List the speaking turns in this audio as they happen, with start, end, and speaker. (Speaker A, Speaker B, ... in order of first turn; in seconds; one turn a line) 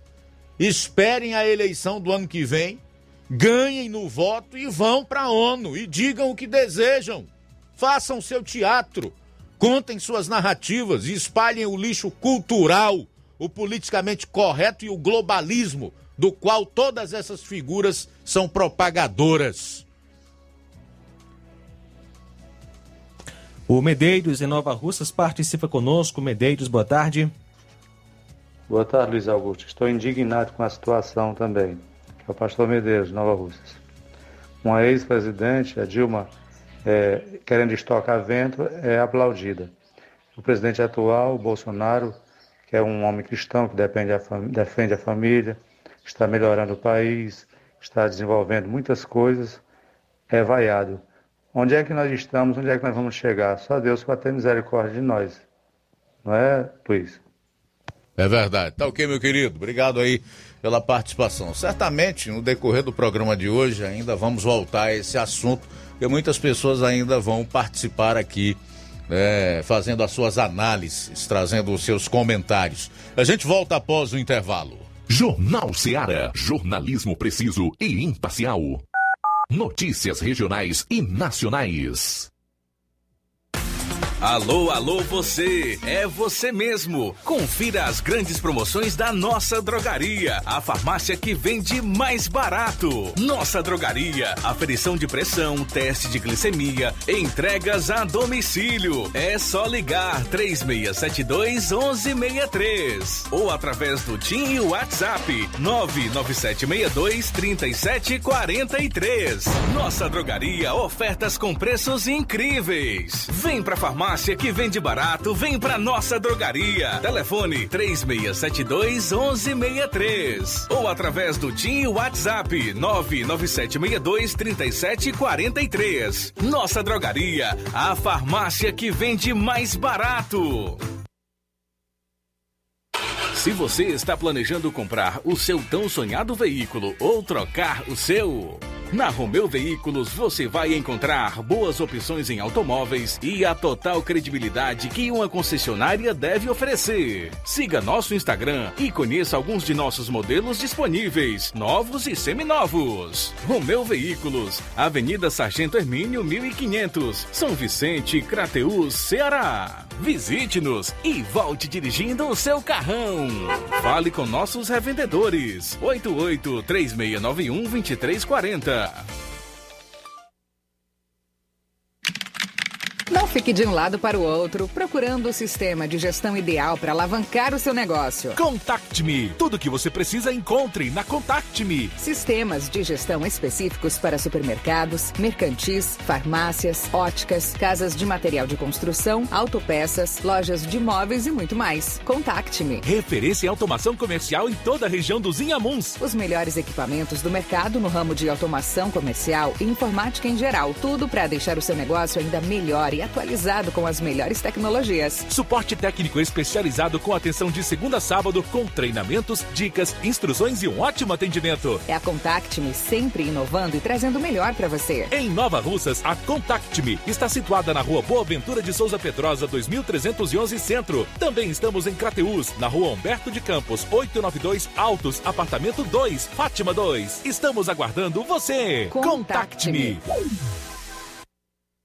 Speaker A: 0.6-19.8
Speaker B: 23.7-27.3
Speaker C: 28.7-33.8
Speaker C: 34.6-36.3
Speaker C: 36.8-39.7
Speaker C: 40.4-42.1
Speaker C: 42.7-49.6
Speaker C: 50.3-51.0
Speaker C: 51.5-55.5
Speaker C: 56.2-57.2
Speaker A: 58.2-74.9
Speaker D: 75.1-78.8
Speaker D: 79.5-82.3
Speaker E: 84.2-130.7
Speaker E: 133.4-163.3
Speaker E: 164.1-168.8
Speaker F: 173.1-178.4
Speaker E: 178.5-181.9
Speaker F: 182.0-192.8
Speaker E: 192.8-195.9
Speaker F: 196.0-205.3
Speaker E: 205.3-211.8
Speaker F: 211.8-215.1
Speaker E: 215.1-229.9
Speaker F: 228.9-230.0